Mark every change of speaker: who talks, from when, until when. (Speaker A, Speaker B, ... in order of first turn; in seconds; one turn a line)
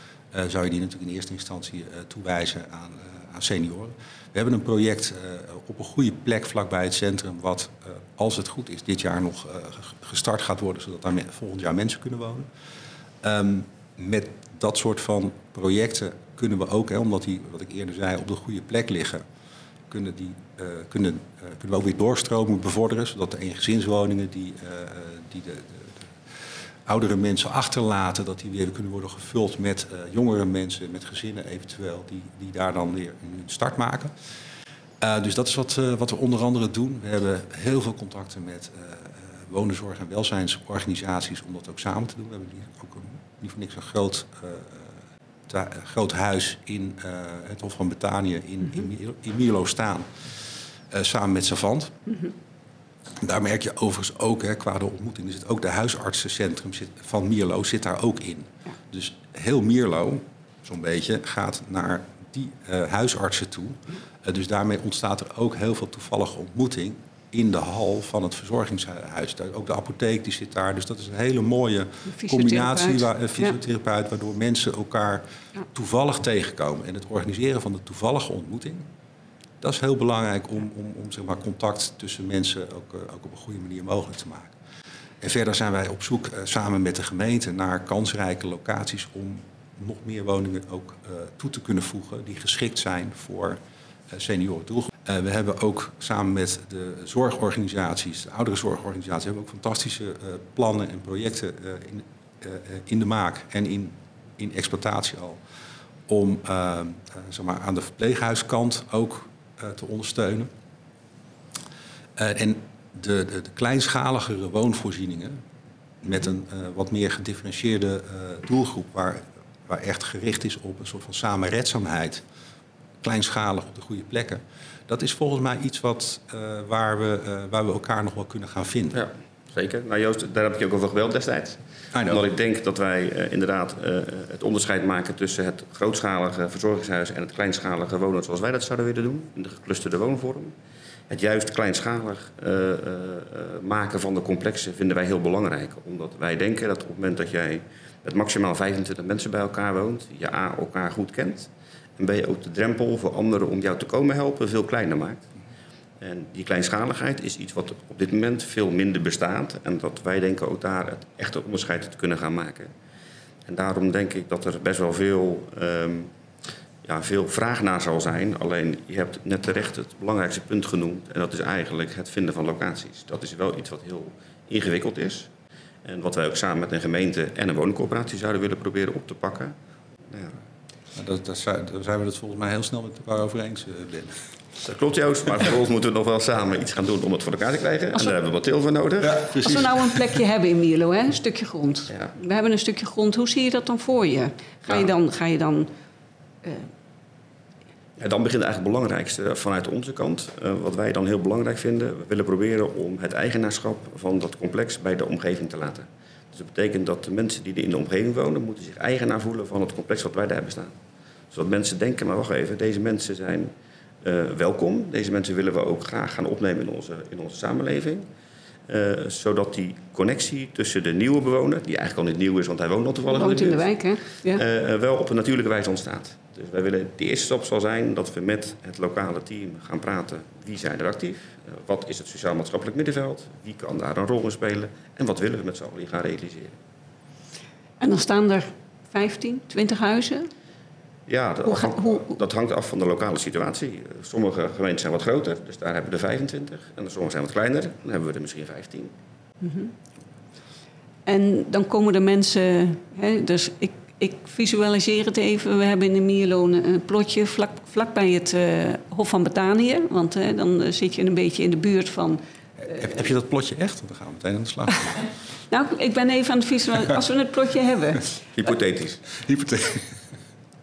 Speaker A: 0.3-12.5
Speaker A: 13.2-19.2
Speaker A: 19.9-26.1
Speaker A: 26.9-34.1
Speaker A: 35.0-50.3
Speaker A: 50.9-52.0
Speaker A: 53.2-78.9
Speaker B: 72.1-73.5
Speaker A: 79.6-84.5
Speaker A: 85.2-93.6
Speaker A: 94.1-105.4
Speaker A: 106.1-110.5
Speaker A: 112.2-115.4
Speaker A: 116.0-122.2
Speaker A: 123.0-129.0
Speaker C: 128.9-140.5
Speaker A: 131.9-132.2
Speaker C: 141.1-155.3
Speaker C: 156.0-162.7
Speaker C: 163.4-166.1
Speaker C: 166.8-175.3
Speaker C: 175.8-179.5
Speaker C: 180.1-180.4
Speaker A: 180.9-184.3
Speaker C: 184.6-189.3
Speaker A: 189.0-190.2
Speaker B: 189.4-195.7
Speaker B: 196.4-196.7
Speaker C: 198.0-210.7
Speaker C: 211.3-213.5
Speaker C: 214.0-218.0
Speaker C: 218.7-236.6
Speaker B: 223.1-224.4
Speaker B: 237.8-240.3
Speaker C: 241.1-248.9
Speaker B: 241.4-242.2
Speaker B: 249.4-249.7
Speaker B: 251.1-262.2
Speaker A: 262.6-265.1
Speaker B: 265.5-268.2
Speaker C: 268.4-269.1
Speaker A: 269.1-270.0